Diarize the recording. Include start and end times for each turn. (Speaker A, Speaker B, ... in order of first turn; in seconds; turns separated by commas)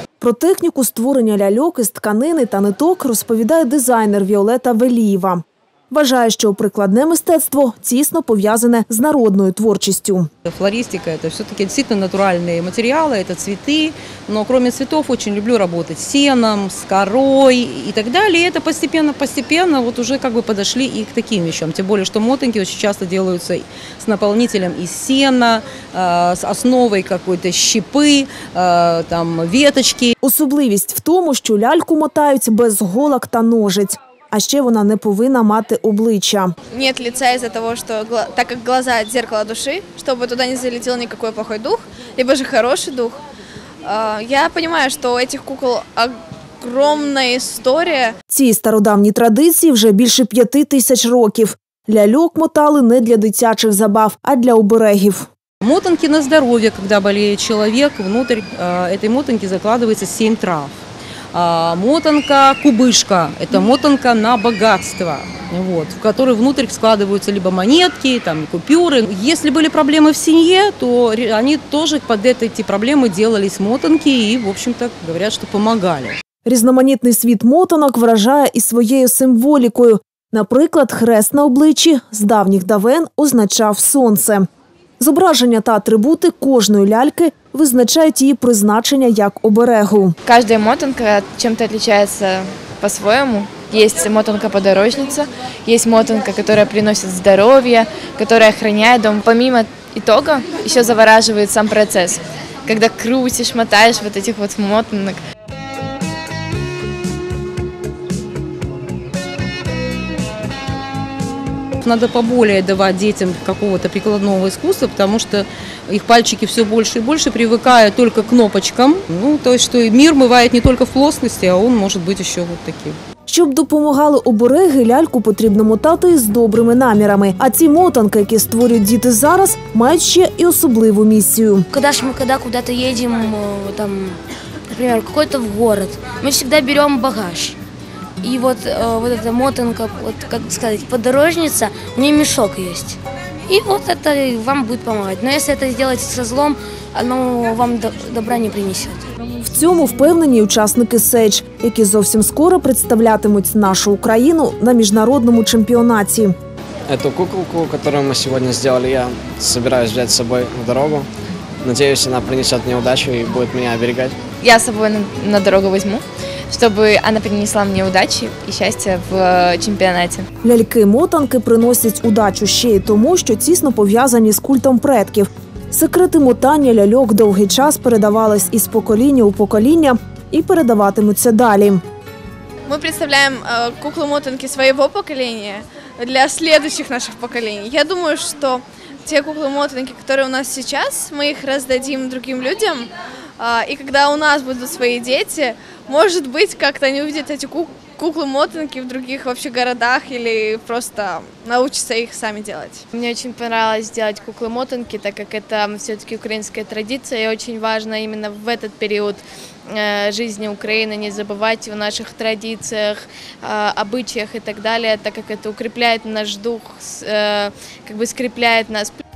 Speaker A: 0.2-10.3, Speaker B: 10.4-30.1, Speaker A: 30.2-36.5, Speaker C: 36.7-43.2, Speaker C: 43.8-48.1, Speaker A: 48.3-55.3, Speaker B: 55.6-60.8, Speaker B: 61.3-76.2, Speaker A: 76.4-84.5, Speaker A: 85.0-90.1, Speaker D: 90.2-105.2, Speaker B: 111.8-123.0, Speaker A: 123.3-131.7, Speaker E: 131.7-134.2, Speaker E: 134.7-137.6, Speaker E: 138.2-143.0, Speaker E: 143.5-149.3, Speaker A: 149.4-156.3, Speaker F: 156.9-161.1, Speaker F: 161.6-164.2, Speaker D: 164.4-170.3, Speaker A: 170.4-181.8, Speaker C: 182.7-202.8, Speaker D: 202.9-219.0